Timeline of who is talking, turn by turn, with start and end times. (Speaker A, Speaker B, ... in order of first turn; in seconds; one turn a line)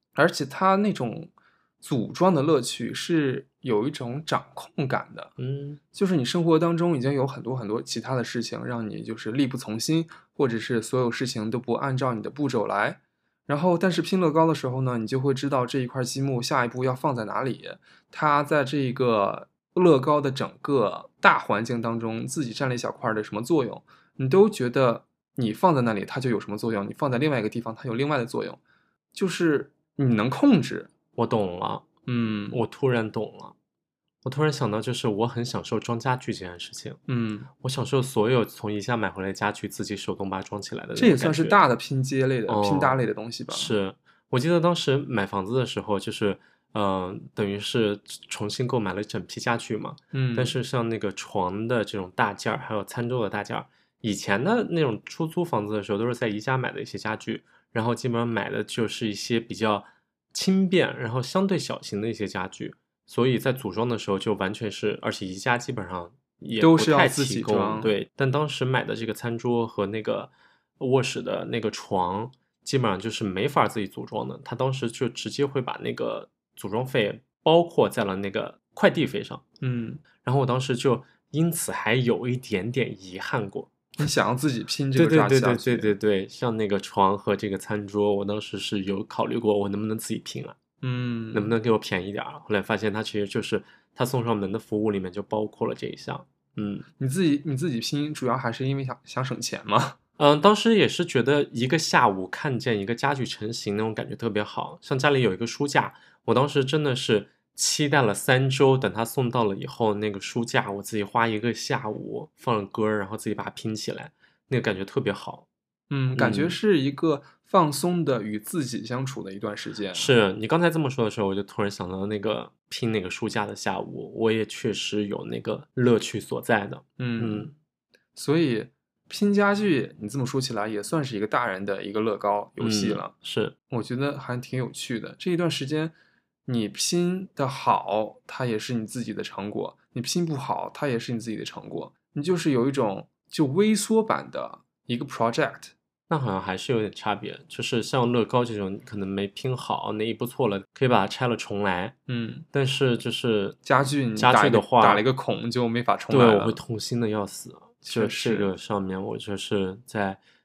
Speaker A: 0.1-5.3
Speaker B: 5.4-5.8
Speaker A: 5.9-28.6
Speaker A: 29.1-30.9
Speaker B: 31.1-31.9
Speaker A: 32.0-32.6
Speaker B: 32.5-33.5
Speaker B: 34.2-37.0
Speaker A: 37.1-37.5
Speaker B: 37.6-41.6
Speaker A: 41.0-43.7
Speaker B: 42.5-79.4
Speaker A: 50.1-50.6
Speaker A: 66.6-67.9
Speaker A: 79.6-80.0
Speaker B: 80.2-83.7
Speaker A: 84.0-85.9
Speaker B: 84.9-90.6
Speaker A: 90.8-91.5
Speaker B: 91.3-96.9
Speaker A: 97.0-100.0
Speaker B: 100.2-115.5
Speaker A: 115.9-120.1
Speaker B: 116.1-116.6
Speaker B: 119.9-127.5
Speaker A: 127.0-127.5
Speaker A: 128.2-133.1
Speaker B: 132.6-133.5
Speaker A: 133.7-135.9
Speaker A: 136.4-145.7
Speaker B: 146.1-151.9
Speaker A: 152.1-152.4
Speaker B: 152.5-155.0
Speaker A: 153.6-156.6
Speaker B: 156.1-160.2
Speaker A: 157.8-158.5